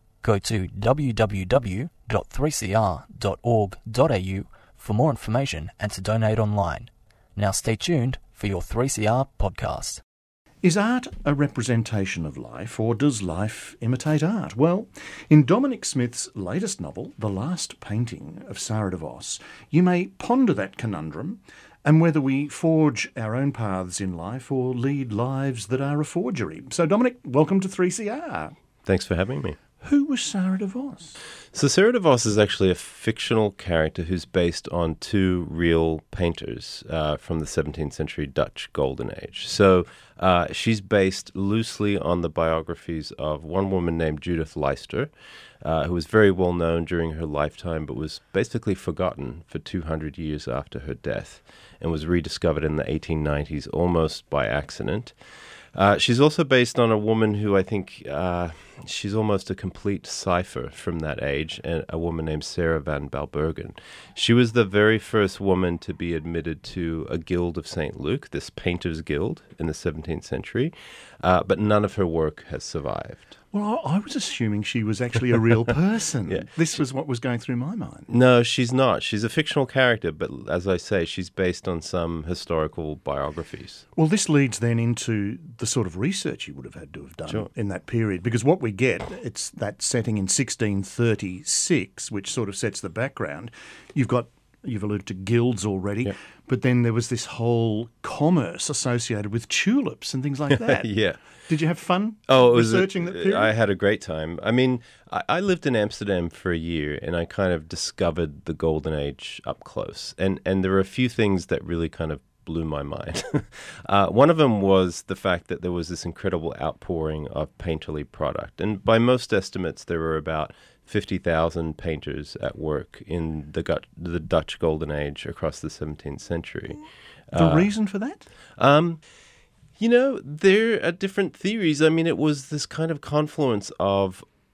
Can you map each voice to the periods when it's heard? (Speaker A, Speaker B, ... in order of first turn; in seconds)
Speaker A: 0.2-10.0
Speaker B: 10.6-28.5, 29.8-31.2, 73.5-78.1, 84.0-100.9, 101.5-103.5, 127.3-128.3
Speaker C: 28.9-29.6, 31.5-45.1, 45.6-55.1, 55.8-73.3, 76.3-76.5, 78.1-83.8, 100.5-101.2, 102.3-126.8, 127.3-127.7, 128.6-129.0, 129.8-134.2